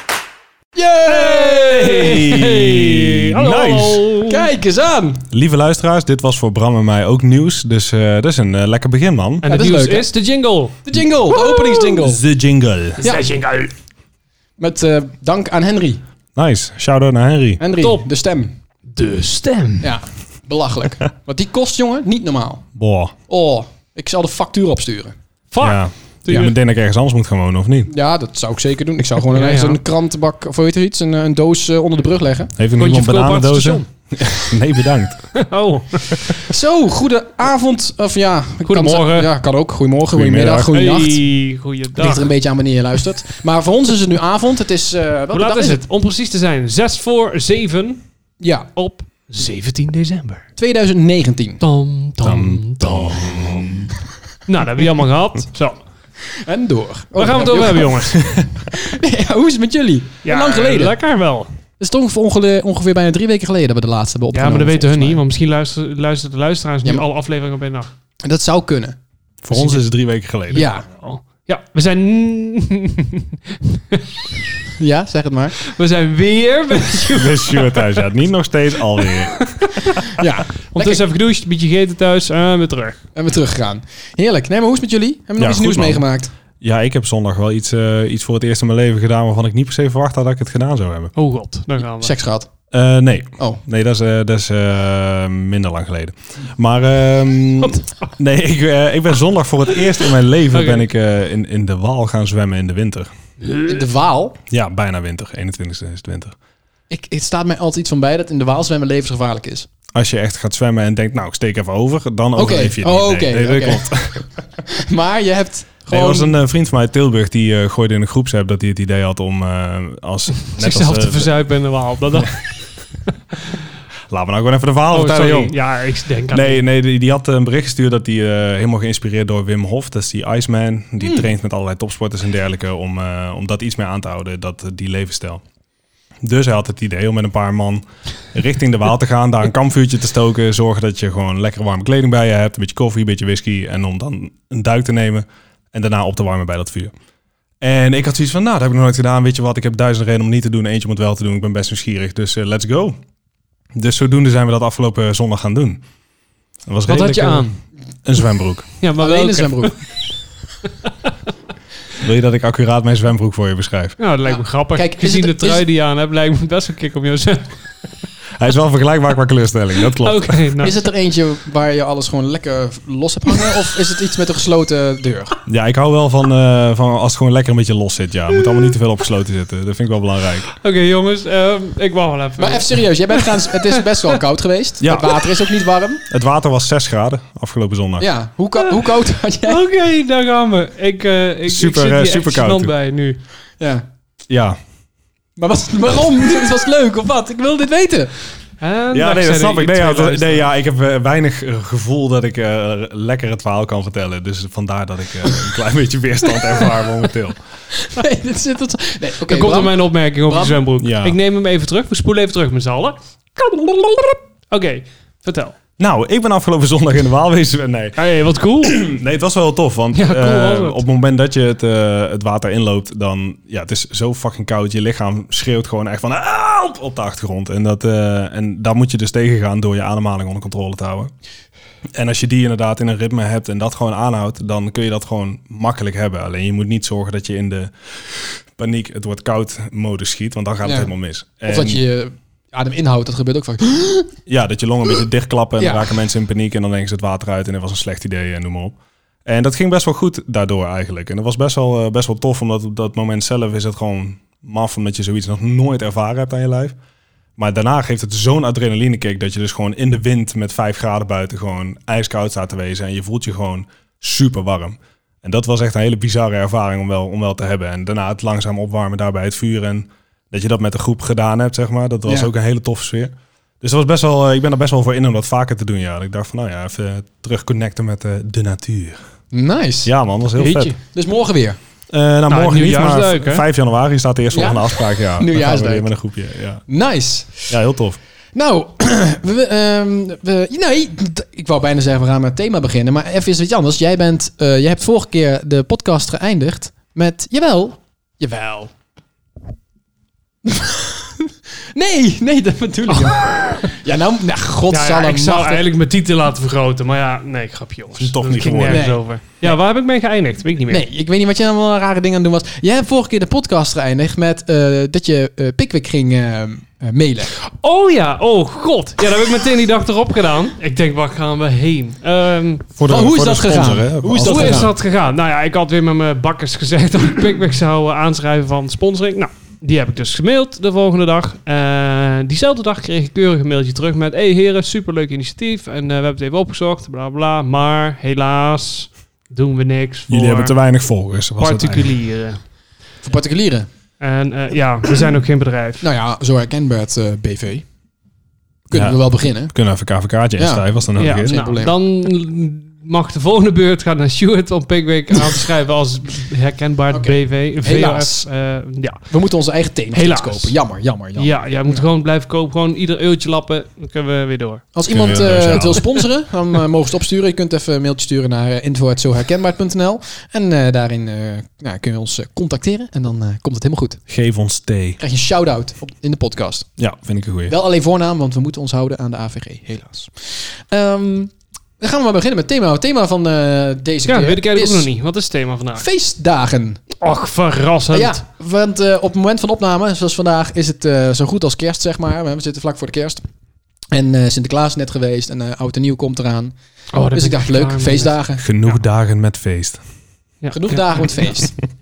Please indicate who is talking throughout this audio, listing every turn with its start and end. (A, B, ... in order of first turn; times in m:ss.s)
0:00.8-0:02.0 A
0:01.1-0:04.5 B
0:01.8-0:04.0 C
0:04.3-0:05.2 A
0:05.3-0:09.4 C
0:09.4-0:10.8 B
0:09.4-0:10.1 A
0:10.8-0:12.2 A
0:11.3-0:11.9 B
0:12.0-0:13.0 C
0:13.0-0:13.3 A
0:13.0-0:13.7 B
0:14.6-0:16.0 A
0:16.4-0:17.6 C
0:17.6-0:18.5 A
0:17.8-0:18.1 B
0:18.9-0:19.9 B
0:19.8-0:22.6 A
0:22.8-0:23.2 C
0:23.3-0:25.2 A
0:25.5-0:26.6 B
0:25.6-0:27.9 C
0:27.9-0:32.5 A
0:29.3-0:29.8 B
0:32.6-0:35.3 C
0:32.8-0:33.9 B
0:35.3-0:36.4 B
0:36.4-0:41.2 A
0:38.6-0:39.3 B
0:40.1-0:40.8 C
0:40.7-0:42.3 B
0:42.0-0:45.8 A
0:45.3-0:48.0 B
0:48.4-0:48.7 A
0:48.8-0:50.4 B
0:50.6-0:51.6 A
0:51.6-0:53.9 B
0:52.2-0:53.9 C
0:54.5-0:55.8 B
0:56.3-1:01.0 A
0:57.2-0:58.2 B
1:00.2-1:01.5 B
1:01.8-1:05.2 A
1:04.3-1:07.9 B
1:08.2-1:09.0 A
1:09.4-1:10.7 C
1:09.5-1:09.8 B
1:10.5-1:10.9 A
1:10.9-1:14.4 B
1:14.8-1:15.6 A
1:15.6-1:18.0 B
1:17.1-1:20.0 C
1:19.0-1:20.0 B
1:20.1-1:21.0 A
1:20.7-1:23.0 B
1:23.2-1:26.3 A
1:25.4-1:26.1 C
1:26.6-1:31.1 C
1:31.2-1:32.1 B
1:32.0-1:32.5 A
1:32.7-1:43.1 C
1:37.6-1:38.1 B
1:40.5-1:40.8 B
1:43.4-1:43.8 B
1:43.7-1:44.4 A
1:44.5-1:46.4 C
1:46.9-1:49.7 A
1:49.9-1:54.2 C
1:52.4-1:53.8 A
1:54.6-1:56.3 A
1:55.9-2:01.3 C
2:00.5-2:02.5 B
2:04.1-2:05.6 C
2:04.9-2:06.6 B
2:06.3-2:15.4 C
2:16.2-2:26.9 C
2:27.6-2:33.0 C
2:33.7-2:35.8 C
2:36.7-2:37.5 C
2:36.9-2:37.6 B
2:38.0-2:38.7 C
2:38.8-2:39.8 B
2:39.0-2:39.8 A
2:42.0-2:44.0 C
2:44.0-2:47.6 B
2:44.3-2:45.6 A
2:48.4-2:50.4 C
2:49.9-2:50.8 B
2:50.6-2:55.4 A
2:55.5-3:00.5 C
3:00.5-3:03.8 B
3:02.4-3:06.0 A
3:04.8-3:05.2 C
3:06.1-3:08.1 C
3:08.0-3:09.6 A
3:09.4-3:13.2 B
3:11.5-3:12.7 C
3:13.6-3:13.8 A
3:14.3-3:14.6 C
3:15.4-3:18.1 A
3:18.6-3:20.5 B
3:18.9-3:27.4 C
3:27.8-3:30.6 A
3:29.3-3:35.6 B
3:30.8-3:31.2 C
3:35.8-3:38.0 C
3:38.0-3:38.8 B
3:38.6-3:51.1 C
3:39.9-3:40.8 B
3:52.0-4:01.8 C
4:00.6-4:00.9 A
4:01.4-4:04.1 A
4:04.3-4:16.8 C
4:05.6-4:05.9 A
4:17.4-4:39.0 C
4:32.1-4:32.3 A
4:39.3-4:39.9 A
4:39.8-4:40.8 C
4:40.4-4:40.8 B
4:40.8-4:41.6 A
4:41.9-4:46.6 C
4:42.3-4:43.5 B
4:44.3-4:45.9 A
4:46.7-4:47.6 A
4:47.5-4:48.0 C
4:48.3-4:58.7 A
5:00.5-5:05.7 A
5:02.9-5:03.6 B
5:04.7-5:10.8 B
5:08.0-5:08.9 C
5:08.7-5:09.5 A
5:10.7-5:17.3 A
5:17.4-5:22.7 B
5:22.8-5:24.7 C
5:22.9-5:24.7 A
5:24.2-5:40.6 B
5:40.1-5:41.9 C
5:41.4-5:42.4 B
5:43.0-5:43.7 A
5:44.0-5:45.9 B
5:45.8-5:47.7 A
5:48.7-5:49.5 A
5:48.7-5:51.4 C
5:50.4-5:51.7 A
5:51.0-5:59.1 B
5:56.9-5:58.3 A
5:59.1-6:01.8 A
6:00.0-6:00.6 B
6:01.2-6:04.7 B
6:04.8-6:14.0 A
6:04.9-6:05.9 C
6:05.5-6:05.7 B
6:14.1-6:15.0 C
6:15.0-6:16.7 A
6:16.8-6:17.6 C
6:17.5-6:24.9 A
6:24.1-6:25.9 B
6:25.8-6:26.8 A
6:27.0-6:28.2 B
6:27.9-6:33.2 A
6:33.9-6:36.5 A
6:36.9-6:38.1 B
6:37.1-6:38.4 A
6:38.4-6:39.8 C
6:40.4-6:41.2 B
6:40.5-6:41.6 A